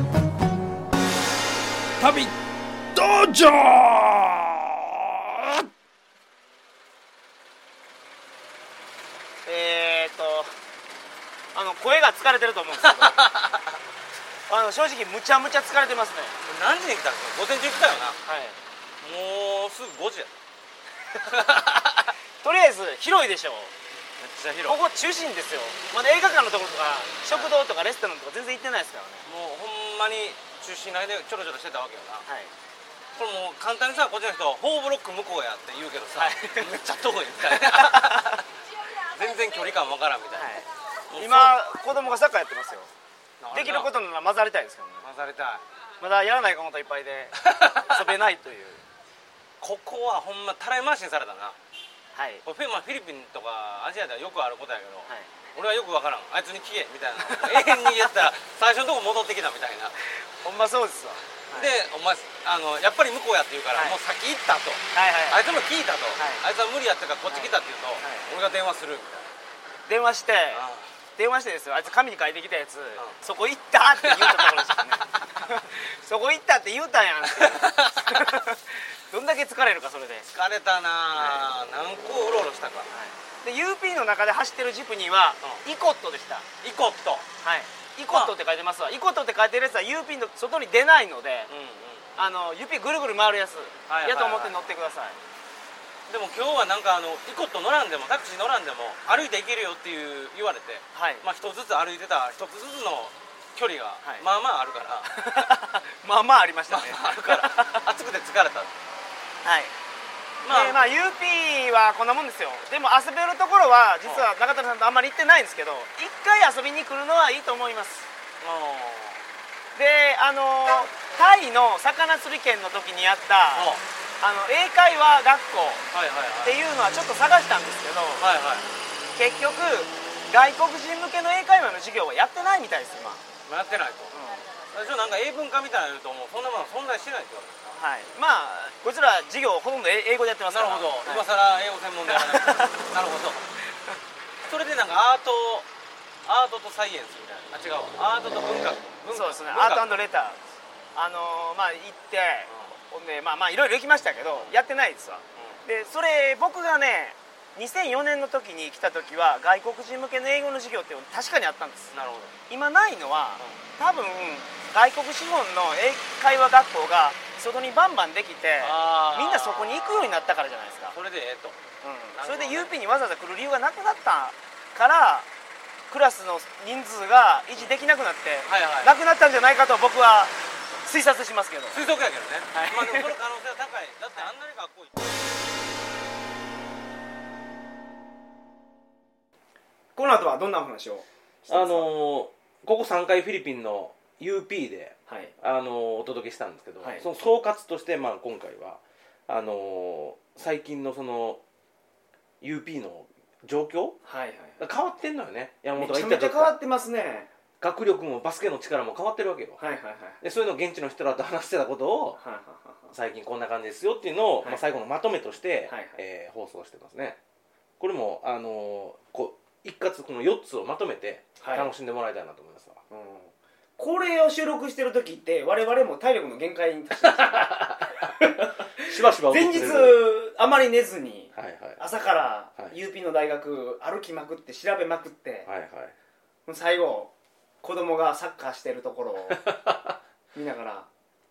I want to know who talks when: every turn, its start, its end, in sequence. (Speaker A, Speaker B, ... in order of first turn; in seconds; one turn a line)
Speaker A: 2.0-2.3
Speaker A: 2.9-5.6
Speaker B: 9.4-10.5
Speaker B: 11.5-13.2
Speaker C: 12.8-13.7
Speaker B: 14.5-16.4
Speaker C: 16.4-18.2
Speaker B: 18.2-18.6
Speaker C: 19.0-20.4
Speaker C: 21.2-22.1
Speaker B: 22.4-23.7
Speaker C: 24.2-24.8
Speaker B: 24.6-29.3
Speaker C: 27.3-27.6
Speaker C: 29.3-32.2
Speaker B: 32.3-32.5
Speaker C: 33.1-38.5
Speaker B: 36.2-36.8
Speaker B: 37.4-38.3
Speaker C: 39.0-40.5
Speaker B: 40.3-42.9
Speaker C: 41.1-41.6
Speaker C: 43.4-43.9
Speaker B: 43.5-45.0
Speaker C: 45.0-45.6
Speaker B: 46.0-48.8
Speaker C: 47.4-48.0
Speaker C: 49.6-51.6
Speaker B: 52.1-52.4
Speaker C: 52.5-59.9
Speaker B: 57.2-58.2
Speaker B: 60.4-61.7
Speaker C: 61.5-69.3
Speaker B: 64.9-65.4
Speaker B: 66.2-66.4
Speaker B: 67.3-68.3
Speaker B: 69.9-70.7
Speaker C: 70.5-70.9
Speaker B: 71.2-80.3
Speaker C: 74.0-75.5
Speaker C: 77.3-78.4
Speaker C: 80.3-82.9
Speaker B: 81.1-81.5
Speaker B: 82.9-86.5
Speaker C: 86.6-87.2
Speaker B: 87.4-91.5
Speaker C: 88.1-88.3
Speaker C: 91.5-92.2
Speaker B: 92.2-95.2
Speaker C: 93.9-94.6
Speaker C: 96.1-105.5
Speaker B: 100.9-101.2
Speaker B: 105.0-107.8
Speaker C: 106.7-108.7
Speaker B: 109.4-109.7
Speaker C: 110.4-110.9
Speaker B: 110.5-118.1
Speaker C: 118.4-119.2
Speaker B: 119.7-125.8
Speaker C: 123.5-123.8
Speaker C: 125.9-126.6
Speaker B: 126.4-128.3
Speaker C: 128.2-128.7
Speaker B: 129.2-133.2
Speaker C: 133.5-137.8
Speaker B: 134.1-134.5
Speaker B: 137.8-141.3
Speaker C: 140.5-143.5
Speaker B: 142.1-142.8
Speaker C: 144.4-145.7
Speaker C: 146.3-150.1
Speaker B: 149.1-150.4
Speaker B: 150.9-161.9
Speaker C: 152.5-152.8
Speaker C: 154.3-154.6
Speaker C: 155.4-155.6
Speaker C: 161.9-162.4
Speaker B: 162.5-171.0
Speaker C: 168.6-171.6
Speaker B: 171.8-175.3
Speaker C: 172.2-172.8
Speaker B: 175.9-181.8
Speaker C: 178.5-178.9
Speaker C: 181.7-185.0
Speaker B: 182.5-183.2
Speaker B: 189.9-191.9
Speaker C: 191.5-201.4
Speaker B: 195.1-195.3
Speaker B: 196.8-197.1
Speaker C: 202.4-204.0
Speaker B: 204.1-204.6
Speaker C: 204.6-206.6
Speaker B: 205.8-207.3
Speaker C: 207.6-209.6
Speaker B: 209.6-210.2
Speaker C: 210.2-212.2
Speaker B: 212.2-212.9
Speaker C: 212.9-217.2
Speaker B: 215.7-216.0
Speaker C: 217.8-222.8
Speaker B: 221.4-221.7
Speaker B: 222.9-235.5
Speaker C: 227.2-228.1
Speaker C: 228.8-230.0
Speaker C: 231.3-231.8
Speaker C: 235.5-235.9
Speaker B: 236.5-239.5
Speaker C: 239.3-239.9
Speaker B: 240.3-240.9